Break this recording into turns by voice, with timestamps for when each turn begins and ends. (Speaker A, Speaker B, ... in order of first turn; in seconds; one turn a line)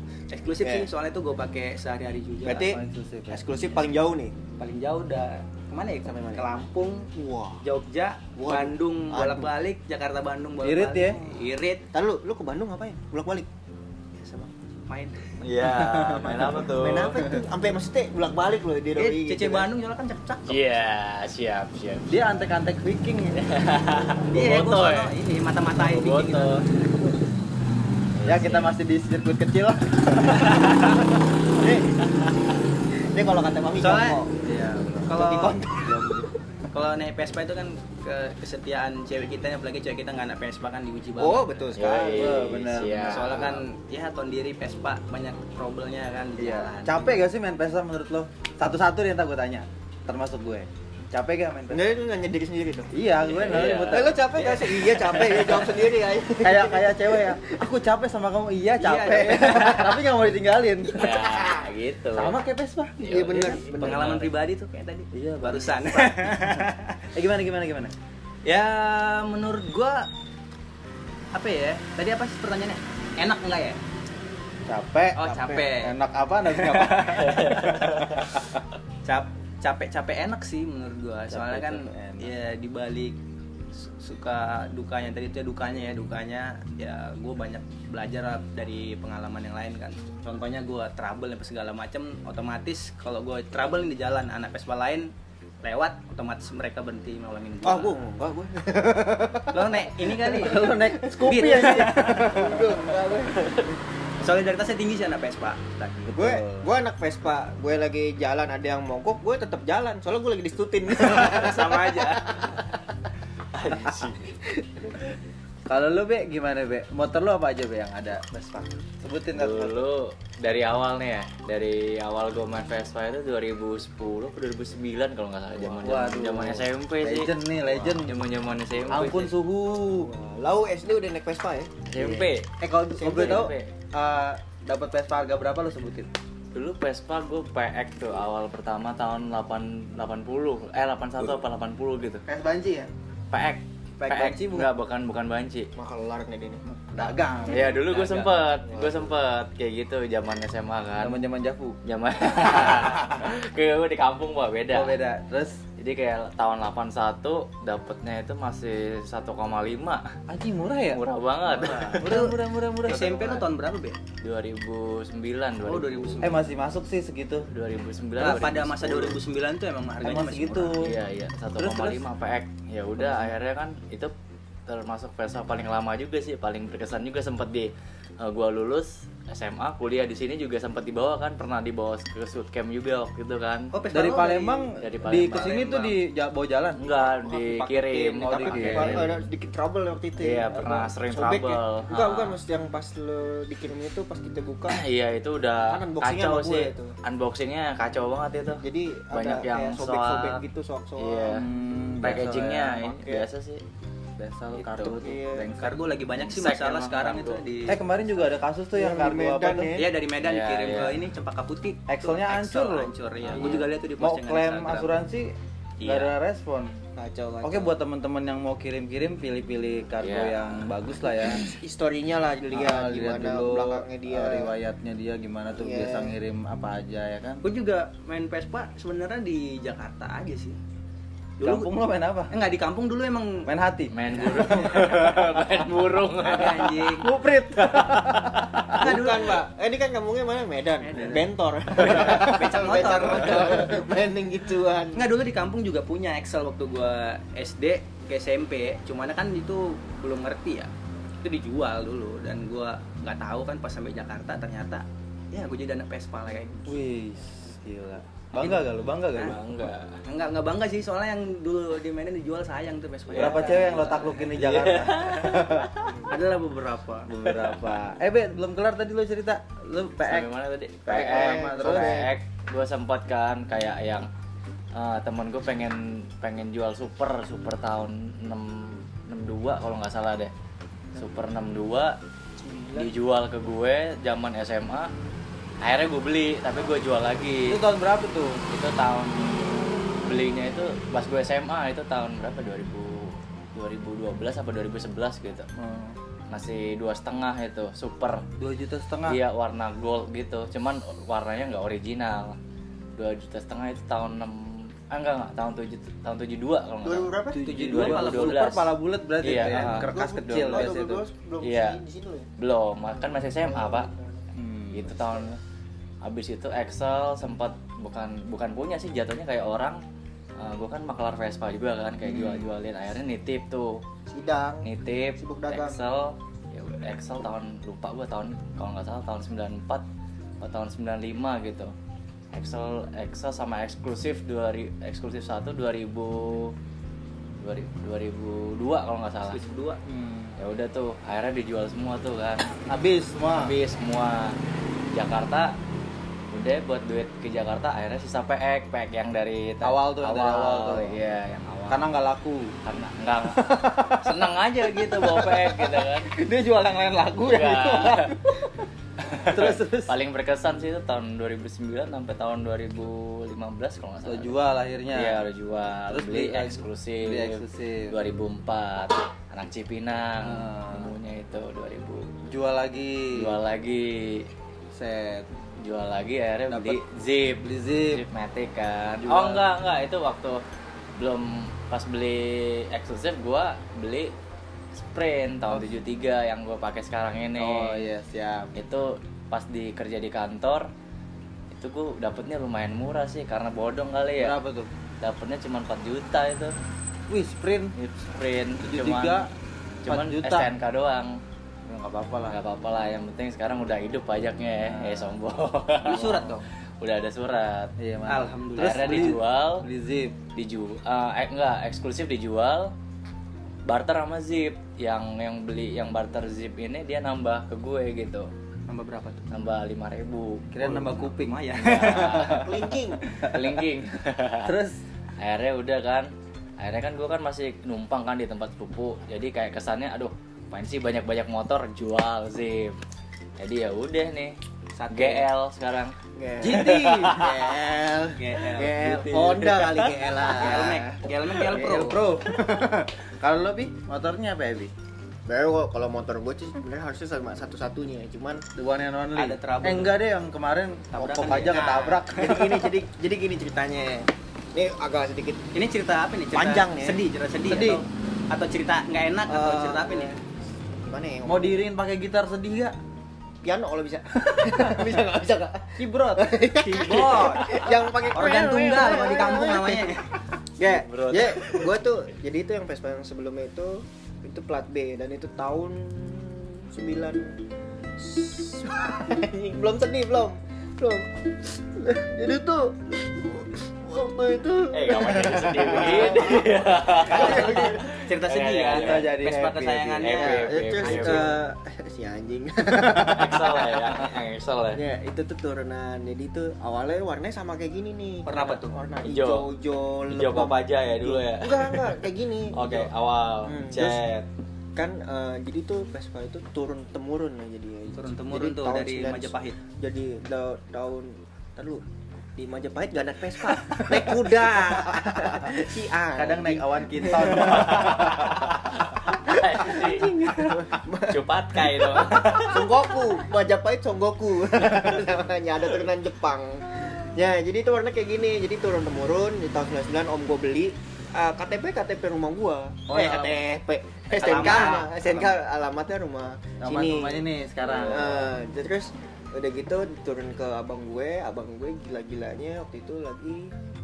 Speaker A: 0.3-2.7
Speaker B: 0.6-0.9
Speaker B: 2.5-2.8
Speaker C: 2.6-3.6
Speaker B: 3.3-4.3
Speaker A: 4.6-7.0
Speaker B: 6.1-6.5
Speaker B: 7.1-7.7
Speaker A: 7.6-11.8
Speaker B: 8.3-9.5
Speaker C: 10.6-11.2
Speaker B: 11.9-13.5
Speaker A: 14.2-15.3
Speaker D: 15.4-17.2
Speaker B: 15.6-19.7
Speaker A: 18.9-20.7
Speaker D: 20.5-22.1
Speaker C: 22.1-23.4
Speaker D: 23.4-25.1
Speaker A: 24.3-26.9
Speaker D: 25.7-26.6
Speaker D: 28.1-28.7
Speaker C: 28.2-30.8
Speaker A: 30.4-30.9
Speaker B: 31.6-31.9
Speaker B: 33.0-34.3
Speaker A: 33.8-34.2
Speaker C: 34.4-36.2
Speaker A: 35.1-36.2
Speaker A: 36.7-41.8
Speaker B: 41.2-42.4
Speaker D: 41.8-43.6
Speaker C: 42.1-43.6
Speaker A: 43.0-47.0
Speaker C: 46.4-51.9
Speaker B: 51.7-52.9
Speaker C: 52.9-55.7
Speaker D: 53.2-54.1
Speaker B: 53.6-57.4
Speaker C: 56.4-61.5
Speaker A: 58.8-60.0
Speaker B: 59.0-59.9
Speaker D: 60.9-62.4
Speaker C: 62.1-63.6
Speaker B: 63.0-64.2
Speaker D: 63.0-64.2
Speaker A: 63.5-67.1
Speaker C: 65.1-67.9
Speaker A: 68.4-70.0
Speaker A: 71.3-73.8
Speaker C: 74.7-78.4
Speaker A: 75.2-75.9
Speaker A: 76.5-78.0
Speaker D: 77.4-77.7
Speaker A: 79.0-83.2
Speaker C: 81.3-82.3
Speaker A: 83.7-95.1
Speaker A: 95.6-98.0
Speaker B: 97.6-103.8
Speaker A: 99.5-102.7
Speaker C: 100.4-102.4
Speaker A: 103.4-103.7
Speaker A: 104.2-106.2
Speaker D: 106.1-106.6
Speaker B: 106.2-112.8
Speaker A: 111.0-112.3
Speaker D: 113.5-114.2
Speaker B: 113.7-115.1
Speaker C: 115.7-118.5
Speaker C: 119.0-119.9
Speaker D: 119.3-129.3
Speaker C: 125.6-128.2
Speaker C: 128.9-130.1
Speaker B: 129.9-131.8
Speaker D: 131.9-132.5
Speaker C: 131.9-132.3
Speaker B: 132.6-133.5
Speaker C: 132.9-136.1
Speaker D: 133.1-133.7
Speaker D: 136.5-142.2
Speaker C: 142.3-142.9
Speaker D: 143.3-145.7
Speaker B: 144.1-144.6
Speaker B: 145.8-147.1
Speaker C: 146.7-147.7
Speaker D: 147.4-151.2
Speaker A: 147.5-148.4
Speaker B: 148.7-149.1
Speaker C: 151.0-151.8
Speaker D: 151.8-154.9
Speaker C: 152.4-153.3
Speaker C: 154.7-155.6
Speaker D: 155.8-160.1
Speaker C: 160.3-161.0
Speaker D: 160.9-162.1
Speaker C: 161.5-163.5
Speaker A: 161.6-164.0
Speaker D: 164.2-166.3
Speaker A: 165.6-166.5
Speaker C: 166.2-167.5
Speaker D: 167.5-169.1
Speaker A: 168.2-170.8
Speaker C: 170.0-170.9
Speaker D: 170.8-174.1
Speaker C: 171.6-172.0
Speaker C: 173.0-173.3
Speaker D: 174.7-183.7
Speaker A: 183.7-184.3
Speaker B: 183.8-184.7
Speaker C: 183.9-186.8
Speaker D: 184.8-186.0
Speaker D: 186.8-189.2
Speaker B: 187.0-194.8
Speaker C: 188.2-189.2
Speaker D: 190.2-192.4
Speaker D: 194.7-200.4
Speaker B: 195.5-196.9
Speaker B: 198.6-201.4
Speaker D: 201.0-201.4
Speaker C: 201.3-203.0
Speaker D: 202.0-203.6
Speaker C: 204.2-205.8
Speaker B: 204.6-205.5
Speaker A: 205.6-207.8
Speaker D: 206.3-207.4
Speaker C: 207.7-209.7
Speaker B: 208.7-209.9
Speaker A: 209.8-214.9
Speaker D: 210.2-211.0
Speaker C: 211.9-216.8
Speaker D: 213.3-213.7
Speaker A: 215.8-216.1
Speaker B: 216.9-217.8
Speaker C: 217.4-221.5
Speaker D: 220.0-220.7
Speaker B: 221.4-224.5
Speaker C: 222.5-227.4
Speaker B: 225.6-226.1
Speaker A: 227.4-230.6
Speaker A: 231.4-231.7
Speaker C: 231.4-232.3
Speaker A: 232.3-233.5
Speaker C: 233.4-235.2
Speaker D: 233.9-236.9
Speaker A: 236.2-237.1
Speaker C: 237.0-238.9
Speaker D: 237.6-238.8
Speaker A: 238.7-239.4
Speaker B: 238.8-245.0
Speaker A: 240.8-243.8
Speaker C: 241.8-243.7
Speaker A: 244.9-250.7
Speaker A: 251.2-256.8
Speaker C: 256.6-259.7
Speaker D: 259.1-260.0
Speaker A: 260.1-264.3
Speaker C: 263.1-270.3
Speaker D: 263.1-266.2
Speaker D: 267.2-267.8
Speaker D: 270.0-274.1
Speaker C: 270.9-272.1
Speaker B: 270.9-272.1
Speaker D: 274.7-280.3
Speaker D: 280.9-281.9
Speaker B: 282.4-282.9
Speaker D: 282.7-284.9
Speaker D: 285.6-287.6
Speaker C: 287.5-288.4
Speaker D: 288.5-295.4
Speaker C: 295.6-296.0
Speaker D: 296.3-298.2
Speaker C: 298.4-299.2
Speaker D: 299.1-302.4
Speaker D: 302.9-310.7
Speaker B: 306.8-307.4
Speaker C: 307.3-311.0
Speaker A: 307.4-308.6
Speaker B: 309.5-312.3
Speaker D: 311.4-311.8
Speaker D: 312.4-313.9
Speaker B: 313.4-314.2
Speaker C: 314.3-314.9
Speaker D: 314.7-315.4
Speaker B: 315.0-315.2
Speaker D: 316.0-319.8
Speaker D: 320.4-323.8
Speaker C: 322.0-322.5
Speaker B: 324.1-324.7
Speaker D: 324.6-329.8
Speaker B: 325.2-325.8
Speaker D: 330.4-331.7
Speaker D: 332.3-336.5
Speaker D: 337.4-339.4
Speaker A: 339.3-339.8
Speaker C: 339.9-340.3
Speaker D: 340.4-342.5
Speaker C: 342.7-343.5
Speaker D: 343.3-344.4
Speaker D: 344.9-345.5
Speaker D: 346.3-351.8
Speaker C: 349.6-351.0
Speaker C: 351.7-352.5
Speaker D: 352.6-356.1
Speaker C: 353.3-358.5
Speaker D: 357.2-358.1
Speaker D: 359.0-364.4
Speaker C: 359.3-359.9
Speaker C: 364.0-365.2
Speaker D: 364.9-372.1
Speaker C: 365.9-367.9
Speaker C: 370.2-370.9
Speaker C: 372.3-373.4
Speaker D: 373.1-374.3
Speaker C: 374.7-375.2
Speaker D: 375.6-380.4
Speaker C: 376.5-376.8
Speaker C: 377.4-378.0
Speaker C: 379.0-379.4
Speaker D: 381.0-384.1
Speaker D: 384.8-387.9
Speaker C: 385.5-385.8
Speaker C: 387.4-388.5
Speaker D: 388.5-390.7
Speaker D: 391.5-394.4
Speaker C: 394.2-394.7
Speaker D: 395.0-396.5
Speaker C: 397.1-397.7
Speaker D: 397.8-399.2
Speaker C: 398.6-399.3
Speaker D: 399.8-401.1
Speaker C: 399.8-400.5
Speaker C: 401.7-402.4
Speaker D: 402.3-406.2
Speaker C: 404.6-405.1
Speaker A: 405.8-406.4
Speaker C: 405.9-406.4
Speaker D: 406.8-407.7
Speaker C: 407.8-410.2
Speaker A: 408.1-409.2
Speaker D: 408.6-409.6
Speaker D: 410.3-412.7
Speaker D: 413.6-418.3
Speaker A: 418.7-419.3
Speaker D: 419.3-420.5
Speaker C: 420.5-422.2
Speaker A: 420.6-423.4
Speaker D: 421.6-422.5
Speaker B: 422.2-423.0
Speaker D: 423.2-424.5
Speaker C: 424.4-424.8
Speaker D: 425.2-432.8
Speaker D: 433.4-434.4
Speaker A: 434.8-435.3
Speaker D: 434.9-437.6
Speaker B: 436.1-442.0
Speaker A: 436.7-437.1
Speaker A: 438.1-439.4
Speaker D: 438.7-439.8
Speaker A: 440.3-442.1
Speaker C: 441.4-444.7
Speaker B: 445.2-448.4
Speaker C: 448.6-452.5
Speaker A: 449.1-449.9
Speaker A: 450.9-452.6
Speaker B: 451.4-455.4
Speaker A: 455.5-460.2
Speaker B: 456.3-457.1
Speaker C: 457.4-457.8
Speaker B: 459.3-460.1
Speaker B: 460.8-461.6
Speaker C: 461.2-462.8
Speaker B: 463.4-469.9
Speaker C: 464.4-464.8
Speaker C: 465.8-466.3
Speaker A: 466.6-470.1
Speaker B: 470.6-477.3
Speaker D: 470.7-471.4
Speaker B: 478.0-487.8
Speaker D: 484.7-489.1
Speaker A: 487.1-491.4
Speaker C: 487.2-487.8
Speaker C: 488.7-490.4
Speaker D: 490.0-491.3
Speaker B: 490.2-494.1
Speaker C: 492.8-493.2
Speaker D: 493.1-494.8
Speaker B: 494.7-502.9
Speaker A: 498.2-498.7
Speaker D: 499.0-499.5
Speaker D: 500.1-502.0
Speaker D: 502.5-504.2
Speaker B: 503.4-504.0
Speaker B: 504.8-511.8
Speaker A: 508.0-509.6
Speaker B: 512.4-537.2
Speaker C: 514.7-518.5
Speaker D: 517.4-522.8
Speaker C: 532.9-533.4
Speaker A: 534.1-535.4
Speaker C: 534.4-534.7
Speaker C: 536.6-538.2
Speaker D: 537.6-538.3
Speaker B: 537.9-543.5